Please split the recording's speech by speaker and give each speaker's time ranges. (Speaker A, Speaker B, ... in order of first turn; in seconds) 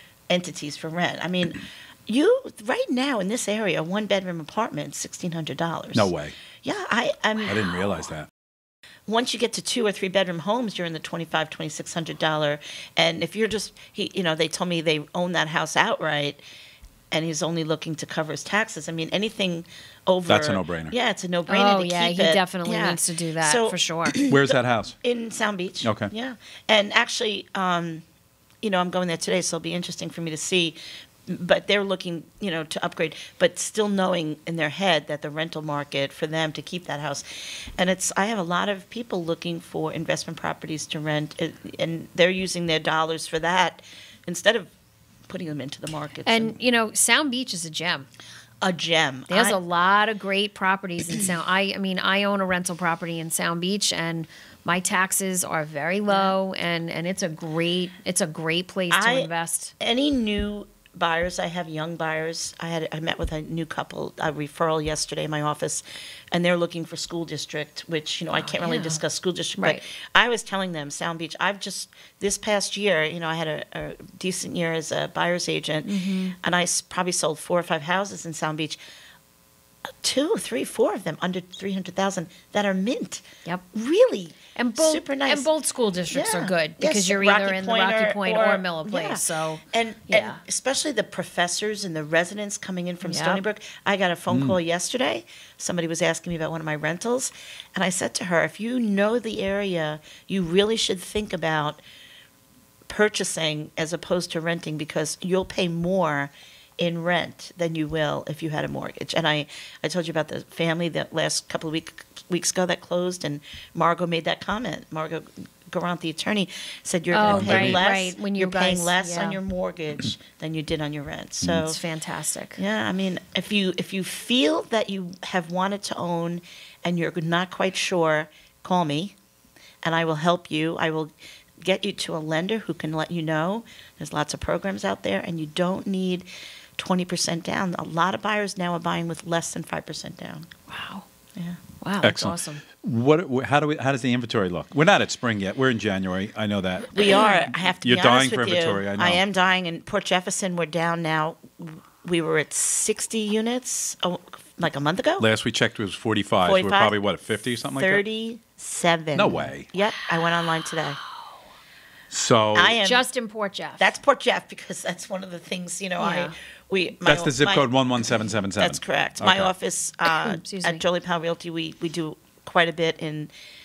Speaker A: 0.3-6.1, 6.6-7.7, 9.1-16.4, 17.1-28.0, 28.6-44.7, 45.3-46.6, 48.6-49.6, 56.1-56.3, 58.9-78.8, 80.0-85.5, 86.1-101.8, 102.9-121.8, 122.6-129.2, 129.8-140.5, 146.9-155.3, 156.4-157.0, 157.6-161.0, 162.6-163.1, 163.8-167.7, 168.6-173.3
Speaker B: 5.9-6.4, 7.5-8.3, 20.3-20.9, 24.3-24.9, 25.8-26.1, 94.3-94.6, 117.2-117.8, 142.0-149.2, 155.2-158.0, 159.2-159.7, 162.1-162.8, 167.0-169.5
Speaker C: 21.5-24.2, 46.2-48.1, 49.3-59.7, 68.3-69.0, 75.8-76.3, 84.5-90.4, 93.0-93.4, 117.1-119.4, 121.6-122.6, 140.7-141.0, 141.8-142.6, 147.0-147.4, 160.2-161.4, 162.8-163.8, 166.0-166.3, 170.1-170.8